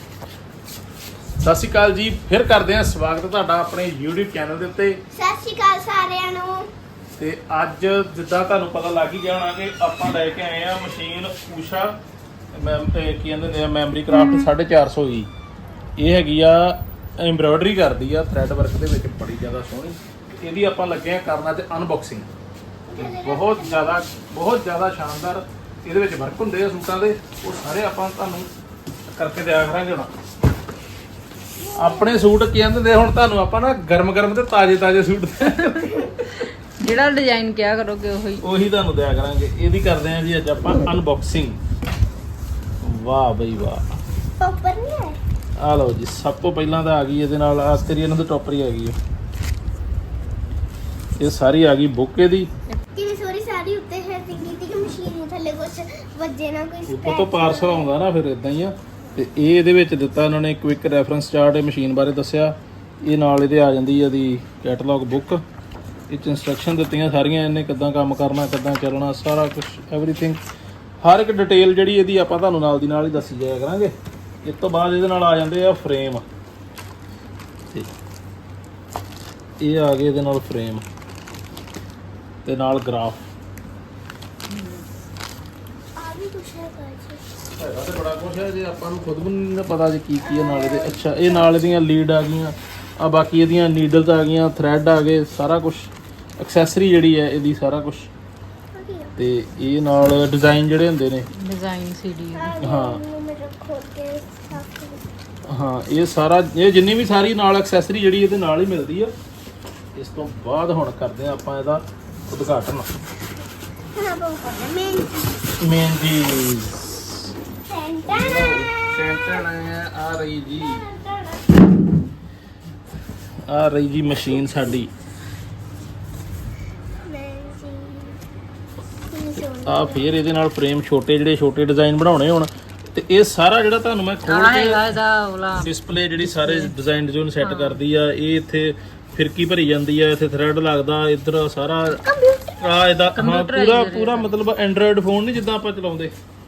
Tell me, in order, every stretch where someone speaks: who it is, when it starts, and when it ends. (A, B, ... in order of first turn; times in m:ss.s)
0:01.4-0:05.0 A
0:05.1-0:06.7 B
0:07.2-0:12.0 A
0:12.5-0:15.3 A
0:14.1-0:14.5 C
0:16.0-0:22.3 A
0:22.9-0:24.0 B
0:23.0-0:28.5 A
0:29.1-0:30.1 A
0:31.6-0:32.2 B
0:31.7-0:36.3 A
0:36.8-0:38.4 C
0:38.4-0:41.6 A
0:42.8-0:43.8 A
0:44.4-0:45.2 B
0:45.6-0:49.0 A
0:51.2-0:52.5 A
0:52.9-0:57.9 B
0:56.9-1:05.4 A
1:06.1-1:10.4 A
1:11.0-1:16.2 A
1:19.6-1:20.8 A
1:22.4-1:23.2 A
1:24.5-1:24.8 C
1:26.0-1:27.2 B
1:27.5-1:38.1 A
1:30.2-1:31.7 B
1:38.7-1:39.1 B
1:39.2-1:41.3 A
1:41.3-1:42.6 C
1:42.3-1:45.0 B
1:42.6-1:43.0 A
1:45.5-1:49.1 A
1:50.0-1:52.9 A
1:53.9-1:55.4 B
1:55.6-1:57.3 A
1:57.6-1:59.5 B
1:58.0-2:00.8 A
2:00.6-2:01.4 B
2:03.5-2:04.9 A
2:07.0-2:08.2 B
2:09.0-2:10.1 B
2:09.6-2:14.9 A
2:14.2-2:16.7 C
2:15.6-2:22.0 A
2:17.4-2:17.8 C
2:22.0-2:22.7 B
2:22.6-2:26.1 A
2:23.1-2:24.3 C